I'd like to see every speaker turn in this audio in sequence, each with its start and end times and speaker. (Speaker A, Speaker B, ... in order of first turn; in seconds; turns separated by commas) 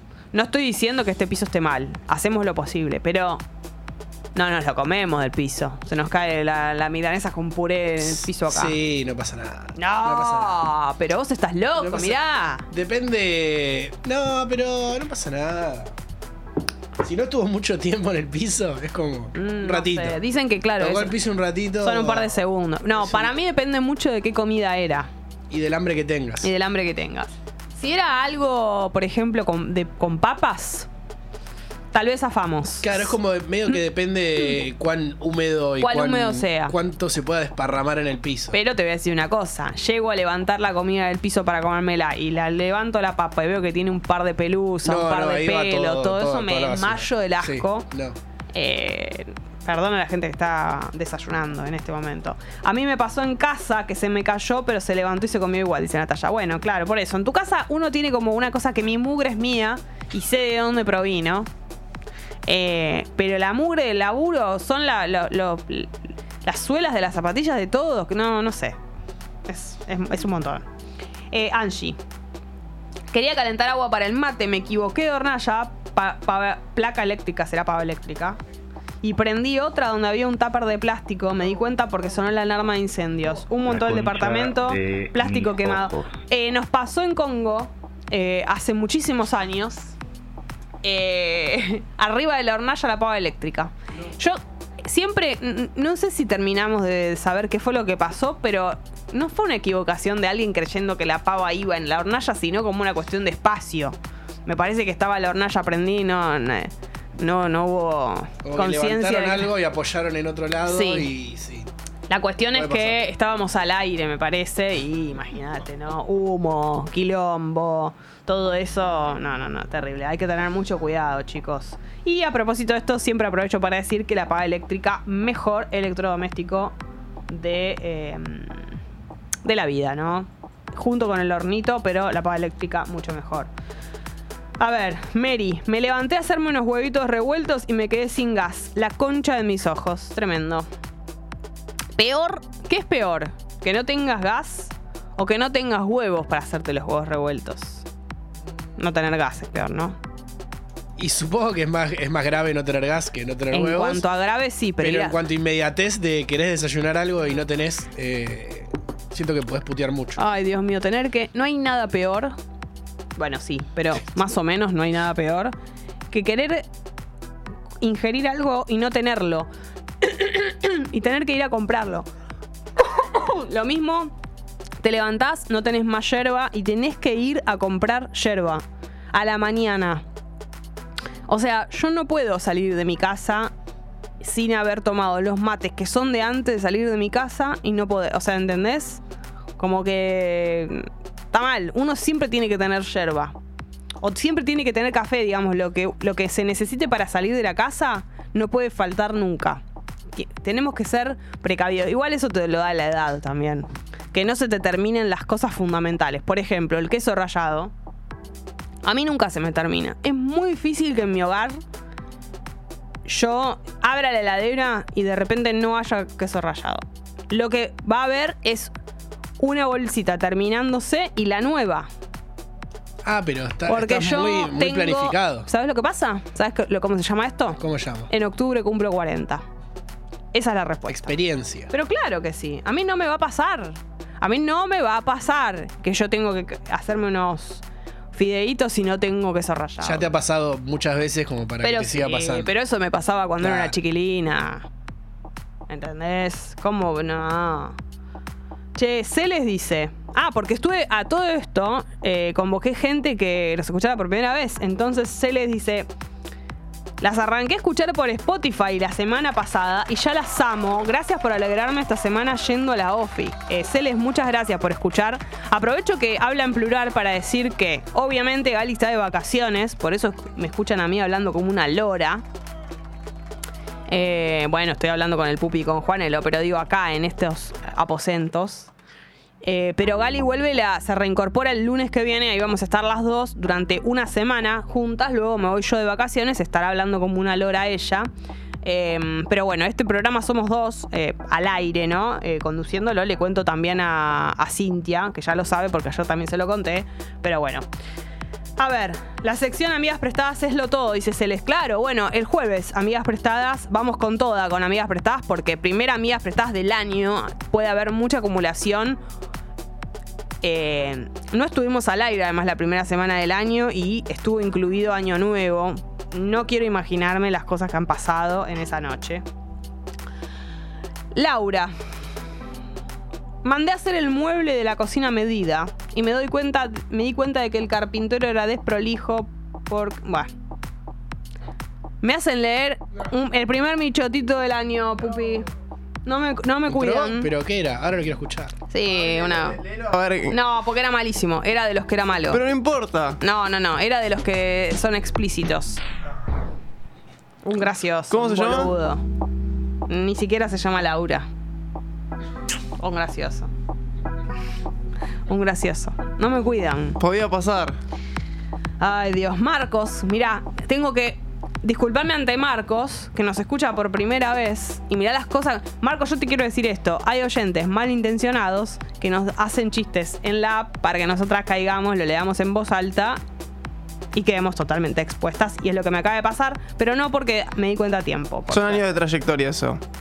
Speaker A: 0.3-3.4, Speaker A: 4.3-8.8, Speaker B: 8.1-10.7, Speaker A: 9.8-12.7, Speaker B: 11.8-12.2, Speaker B: 12.7-15.9, Speaker B: 17.0-20.2, Speaker A: 19.4-21.2, Speaker B: 20.8-22.3, Speaker A: 21.8-25.1, Speaker B: 23.0-23.3, Speaker B: 25.5-26.5, Speaker A: 26.4-30.9, Speaker A: 31.9-33.2, Speaker B: 32.8-38.6, Speaker A: 35.8-36.7, Speaker A: 38.5-47.9, Speaker B: 44.8-48.2, Speaker A: 48.5-61.5, Speaker A: 62.5-68.8, Speaker A: 69.5-70.6, Speaker A: 71.3-72.0, Speaker A: 73.1-78.4, Speaker A: 79.0-89.9, Speaker A: 90.8-109.5, Speaker B: 108.4-111.7, Speaker A: 110.7-111.1, Speaker A: 112.1-126.7, Speaker B: 112.5-113.0, Speaker A: 127.3-128.6, Speaker A: 129.4-133.5, Speaker A: 134.6-140.7, Speaker A: 142.0-147.8, Speaker A: 148.8-150.0, Speaker B: 151.0-154.1, Speaker A: 153.5-155.2, Speaker B: 154.8-160.2, Speaker A: 160.2-162.3, Speaker A: 163.2-165.5, Speaker A: 166.1-166.7, Speaker A: 167.8-169.5, Speaker A: 170.0-172.1, Speaker A: 172.9-174.1, Speaker A: 174.8-180.0, Speaker A: 181.3-183.5, Speaker A: 184.2-189.0, Speaker A: 189.6-193.3, Speaker A: 194.0-199.6, Speaker A: 200.1-207.7, Speaker A: 208.8-211.6, Speaker A: 213.1-218.7, Speaker A: 219.4-221.9, Speaker B: 223.0-225.5, Speaker A: 223.7-227.6, Speaker B: 227.6-228.1, Speaker A: 228.1-229.4, Speaker A: 230.3-231.2, Speaker B: 230.9-231.7, Speaker A: 231.7-240.1, Speaker B: 239.8-242.5, Speaker A: 241.6-244.7, Speaker B: 243.4-243.7, Speaker A: 245.7-247.8, Speaker A: 248.8-255.9, Speaker A: 257.0-272.2, Speaker A: 273.9-278.7, Speaker A: 279.4-288.1, Speaker A: 288.6-297.6, Speaker A: 298.6-309.0, Speaker A: 310.4-319.2, Speaker A: 321.1-321.7, Speaker A: 323.4-330.3, Speaker A: 332.0-335.5, Speaker A: 336.1-337.3, Speaker B: 336.7-338.6, Speaker A: 338.7-339.6, Speaker C: 339.6-340.4, Speaker A: 340.3-342.4, Speaker C: 342.3-343.2, Speaker A: 343.2-345.8, Speaker A: 347.4-349.0, Speaker C: 348.1-348.7, Speaker A: 349.9-351.3, Speaker A: 352.8-353.5, Speaker A: 355.3-357.0, Speaker C: 357.0-357.8, Speaker A: 358.8-373.2, Speaker A: 374.1-378.8, Speaker C: 378.5-379.8